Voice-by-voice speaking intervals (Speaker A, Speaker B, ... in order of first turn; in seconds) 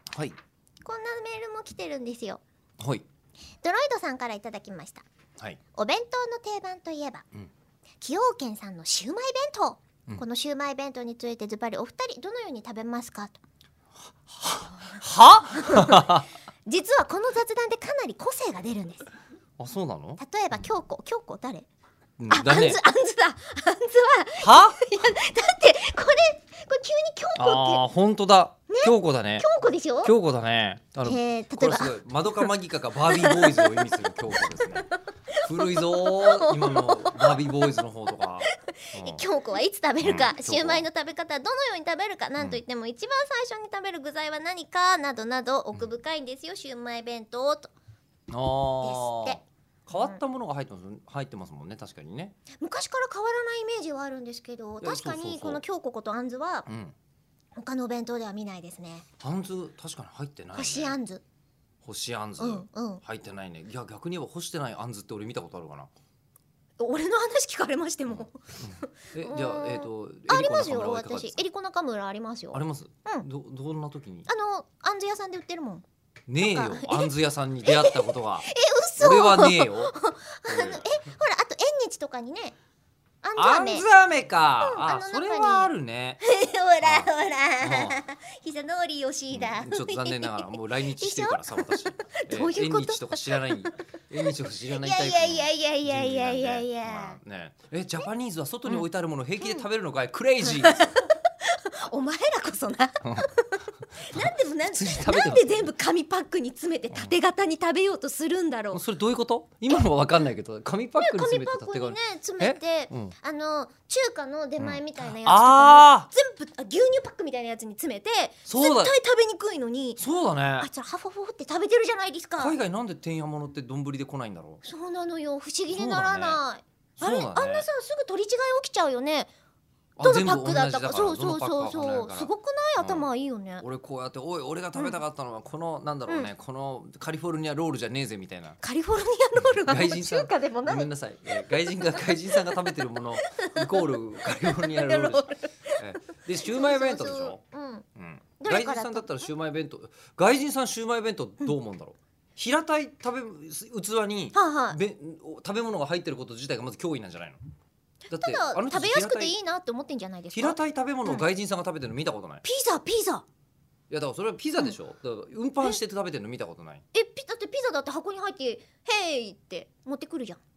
Speaker A: 0.1-0.4, 14.3-16.3, 19.6-20.6, 22.2-22.8, 24.4-24.8, 27.4-29.5, 30.0-34.9, 35.4-39.2, 40.0-40.9, 48.3-52.3, 54.8-55.6, 56.7-56.9, 59.2-61.0, 61.8-65.9, 68.1-71.4, 72.5-74.3, 76.3-78.5, 79.0-79.9, 80.5-80.9, 83.4-86.2, 86.8-88.0, 89.3-101.0, 103.0-103.3, 104.1-105.7, 106.9-107.1, 108.7-113.1, 114.6-116.1, 118.5-118.9, 120.0-120.7, 122.4-124.6, 125.7-126.4, 127.0-127.7, 130.0-133.1, 133.6-138.6, 139.4-147.4, 147.9-157.4, 158.1-159.3, 160.3-162.4, 163.9-166.8
Speaker B: 0.8-2.4, 3.6-5.0, 5.7-7.2, 8.0-13.4, 15.6-16.1, 16.6-19.1, 20.2-21.7, 22.3-27.8, 28.7-30.1, 31.0-31.9, 33.1-33.9, 35.3-37.8, 38.7-47.7, 48.8-49.4, 49.9-50.2, 52.6-56.6, 57.5-59.0, 60.5-61.2, 62.4-63.0, 66.8-73.3, 74.3-75.8, 76.4-77.1, 77.7-82.5, 83.2-83.9, 84.6-85.7, 86.2-93.7, 94.3-97.2, 99.4-99.7, 100.4-108.8, 111.0-120.0, 120.6-122.6, 124.6-129.3, 130.0-133.6, 134.7-135.0, 138.6-140.9, 141.9-142.6, 143.2-143.9, 144.4-147.8, 148.4-149.3, 154.3-154.8, 158.1-161.2, 162.4-163.2, 166.9-170.4